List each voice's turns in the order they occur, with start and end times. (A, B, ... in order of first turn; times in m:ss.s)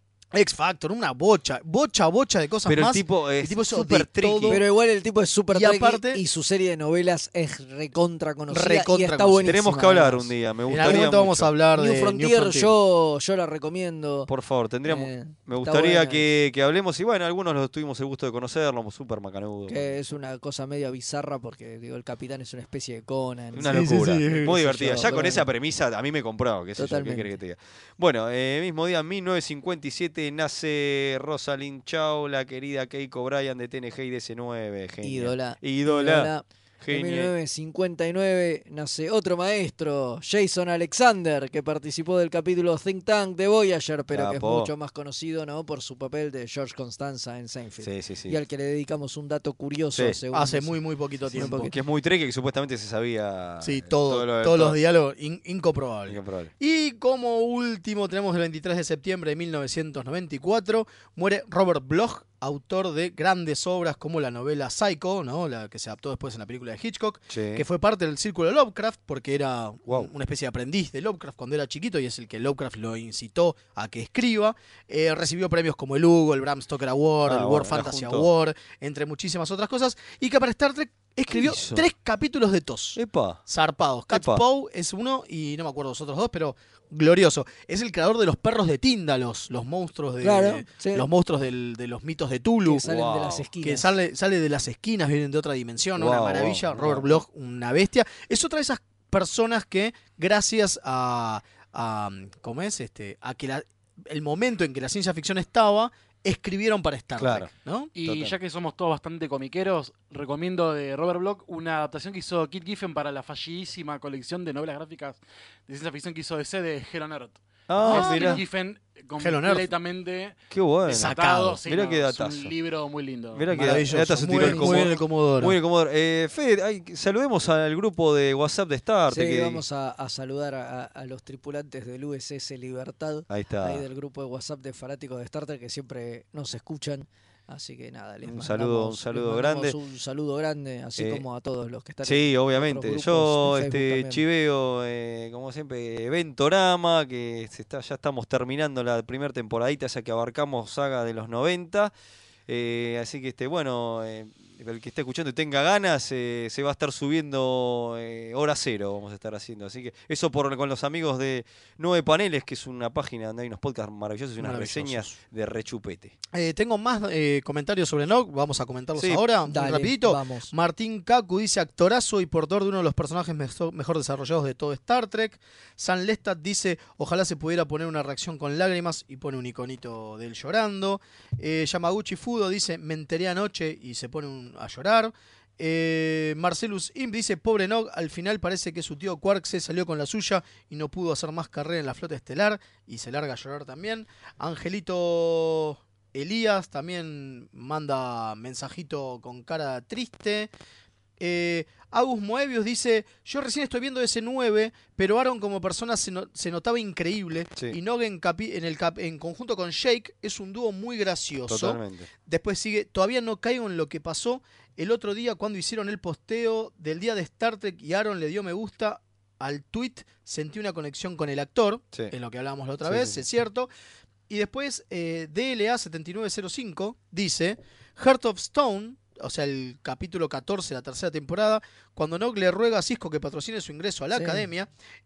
0:00.3-0:04.6 A
0:02.6-0:04.6 B
0:04.5-0:11.0 C
0:05.5-0:06.2 A
0:08.5-0:09.6 A
0:09.4-0:11.5 B
0:10.7-0:12.7 A
0:11.8-0:14.3 C
0:14.3-0:20.0 B
0:14.9-0:16.3 C
0:19.7-0:25.4 C
0:23.5-0:37.3 B
0:23.7-0:25.4 A
0:26.8-0:27.3 C
0:35.0-0:50.8 C
0:44.1-0:44.7 B
0:47.8-0:48.4 B
0:50.3-0:51.7 A
0:51.2-0:54.8 B
0:51.3-0:51.7 C
0:53.6-1:32.8 A
0:56.1-0:56.5 B
1:07.3-1:07.6 B
1:09.9-1:10.1 B
1:17.2-1:18.3 B
1:21.3-1:21.8 B
1:23.0-1:23.4 B
1:24.1-1:24.4 B
1:30.2-1:31.1 C
1:32.6-1:33.9 C
1:32.8-1:33.5 B
1:33.6-1:47.9 A
1:36.0-1:37.2 B
1:47.2-1:47.5 B
1:48.0-2:00.4 D
1:48.0-1:48.4 B
1:57.7-1:58.4 B
1:57.7-1:58.4 A
1:59.2-1:59.7 A
2:00.5-2:02.5 B
2:00.9-2:01.6 A
2:00.9-2:03.8 D
2:03.3-2:09.6 B
2:03.5-2:05.6 A
2:09.1-2:24.2 C
2:13.3-2:13.8 B
2:18.2-2:19.8 B
2:21.0-2:21.2 B
2:22.0-2:31.9 B
2:32.5-2:46.1 B
2:44.4-2:45.2 A
2:46.3-3:20.5 A
2:49.0-2:49.2 B
2:49.5-2:50.5 C
3:21.2-3:43.7 A
3:31.5-3:32.1 B
3:42.8-3:43.2 B
3:44.3-3:54.7 A
3:54.1-3:54.4 C